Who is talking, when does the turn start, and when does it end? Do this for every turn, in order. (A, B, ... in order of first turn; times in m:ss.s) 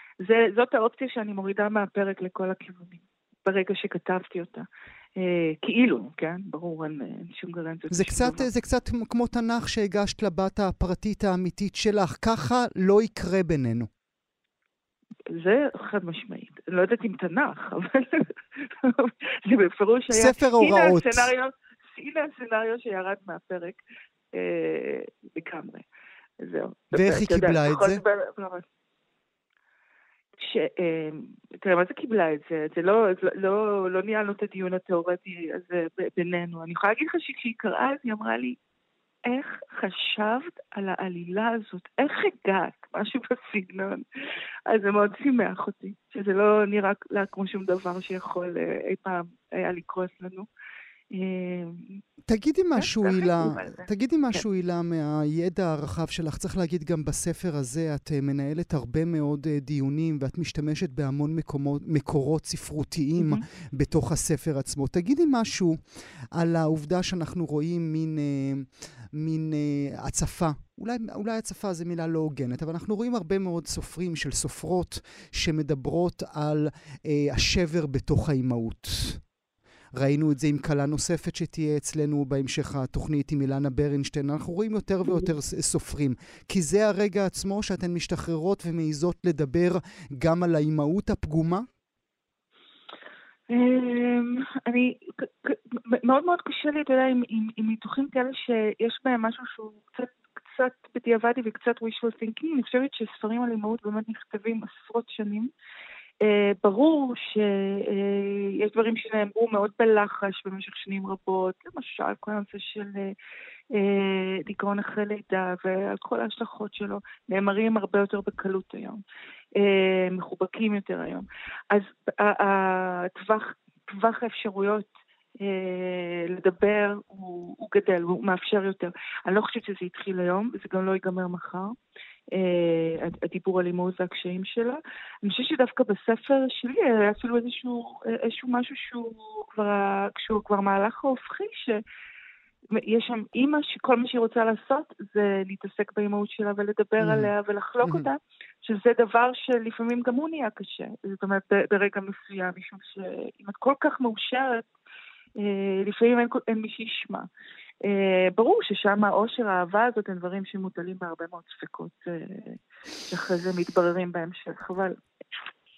0:00.2-0:04.6 A
0:05.2-0:08.5 A
0:07.9-0:13.9 B
0:15.3-0:23.8 A
0:20.1-0:21.3 B
0:24.3-0:25.8 A
0:26.4-0:28.6 A
0:26.9-0:28.0 B
0:30.4-0:38.6 A
0:39.2-0:44.0 A
0:44.7-0:50.5 A
0:51.1-0:52.0 A
0:52.3-1:05.8 B
0:52.8-0:54.4 A
1:03.2-1:03.4 A
1:06.3-1:19.2 B
1:19.9-1:31.6 B
1:33.5-1:45.5 A
1:46.2-1:53.1 A
1:53.7-1:59.0 A
1:59.6-2:04.9 A
2:05.4-2:11.8 A
2:12.3-2:21.8 A
2:22.7-2:34.6 A
2:27.0-2:27.3 B
2:27.8-2:28.1 B
2:35.4-2:37.3 A
2:37.8-2:42.6 A
2:43.1-2:45.0 A